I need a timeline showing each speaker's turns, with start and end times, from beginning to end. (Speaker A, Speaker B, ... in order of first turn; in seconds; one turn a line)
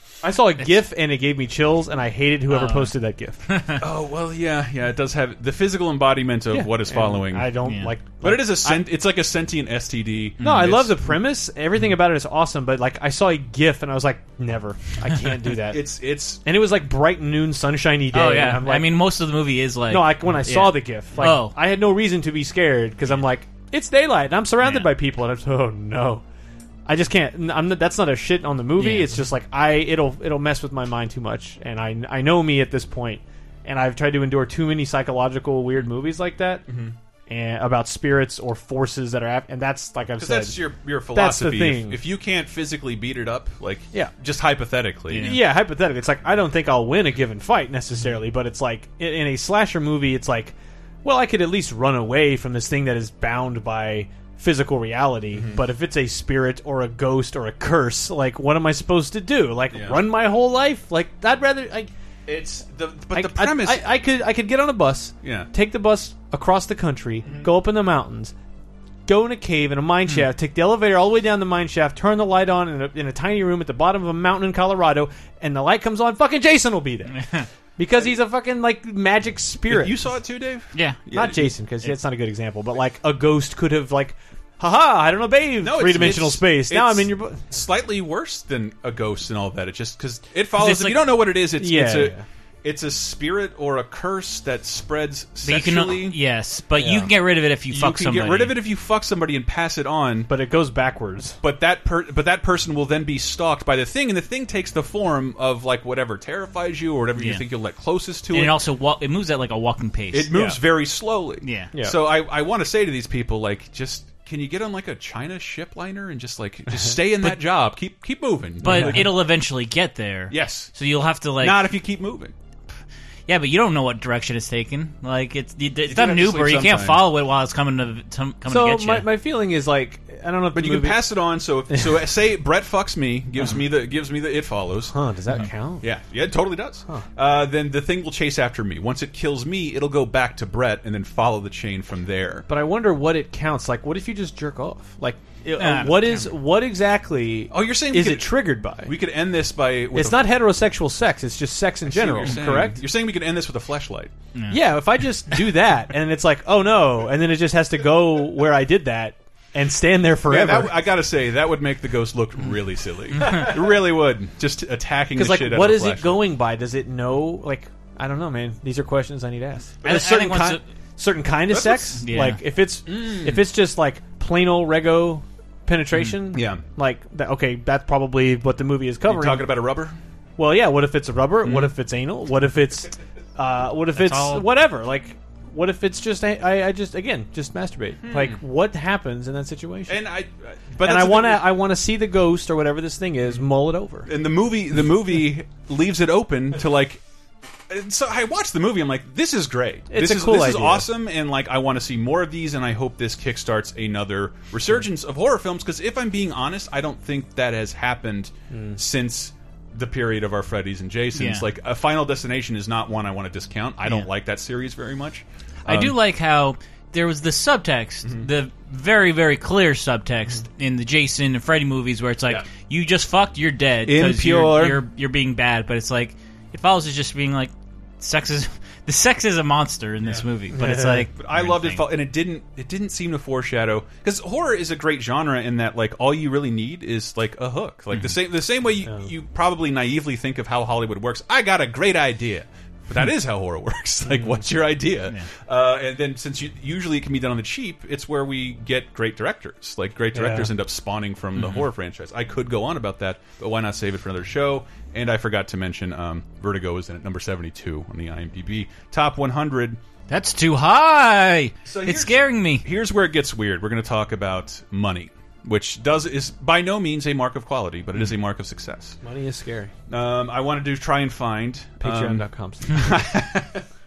Speaker A: 0.2-3.5
Speaker B: 2.5-2.9
Speaker B: 3.5-3.8
Speaker C: 3.8-7.5
Speaker A: 6.5-8.9
Speaker B: 7.6-7.9
Speaker C: 8.2-11.0
Speaker B: 10.4-10.8
Speaker A: 10.4-19.0
Speaker C: 15.7-16.4
Speaker B: 18.1-21.6
Speaker A: 19.9-26.2
Speaker B: 24.6-24.9
Speaker A: 26.9-36.6
Speaker B: 28.8-29.1
Speaker C: 36.7-36.9
Speaker A: 37.3-42.0
Speaker C: 40.2-45.3
Speaker B: 45.1-45.4
Speaker A: 45.1-61.9
Speaker C: 55.3-55.6
Speaker C: 59.7-60.1
Speaker C: 62.3-63.9
Speaker A: 63.1-68.3
Speaker C: 65.2-65.5
Speaker C: 67.2-67.5
Speaker A: 69.1-80.0
Speaker B: 77.2-77.5
Speaker C: 79.7-81.5
Speaker B: 80.7-81.0
Speaker A: 81.1-87.5
Speaker C: 85.6-96.2
Speaker B: 90.5-91.3
Speaker A: 91.5-92.2
Speaker B: 95.4-98.6
Speaker A: 96.8-97.1
Speaker C: 97.7-100.3
Speaker A: 100.3-101.4
Speaker C: 101.4-108.5
Speaker B: 107.2-107.4
Speaker B: 108.3-110.3
Speaker C: 110.1-119.1
Speaker A: 110.3-110.6
Speaker B: 111.4-111.7
Speaker A: 111.7-112.0
Speaker B: 118.6-121.8
Speaker A: 118.6-119.1
Speaker C: 120.3-120.7
Speaker C: 121.4-122.3
Speaker B: 123.3-129.1
Speaker C: 125.8-127.1
Speaker A: 128.4-131.1
Speaker C: 130.5-134.9
Speaker A: 131.7-132.0
Speaker A: 134.9-135.8
Speaker C: 135.8-142.5
Speaker A: 142.5-148.9
Speaker B: 145.6-146.3
Speaker C: 147.5-150.3
Speaker A: 149.9-152.8
Speaker C: 151.8-154.1
Speaker B: 154.3-154.7
Speaker A: 154.5-160.9
Speaker C: 160.3-166.3
Speaker A: 165.1-179.6
Speaker B: 169.8-170.6
Speaker C: 171.5-172.0
Speaker B: 172.0-172.4
Speaker C: 172.8-173.5
Speaker C: 176.3-176.6
Speaker C: 179.1-180.0
Speaker A: 180.4-190.0
Speaker C: 181.4-181.7
Speaker B: 183.9-184.4
Speaker C: 188.0-188.4
Speaker C: 189.9-191.6
Speaker A: 190.8-194.1
Speaker C: 194.0-197.0
Speaker C: 197.7-215.9
Speaker A: 199.9-200.9
Speaker A: 208.5-208.8
Speaker B: 211.1-211.4
Speaker B: 215.6-231.9
Speaker C: 223.8-224.8
Speaker A: 230.5-231.1
Speaker C: 231.1-259.8
Speaker A: 238.8-239.1
Speaker A: 244.1-244.4
Speaker A: 250.1-250.5
Speaker B: 251.3-251.7
Speaker B: 260.1-262.6
Speaker C: 261.6-269.0
Speaker A: 269.0-269.7
Speaker C: 269.9-273.6
Speaker A: 271.8-273.0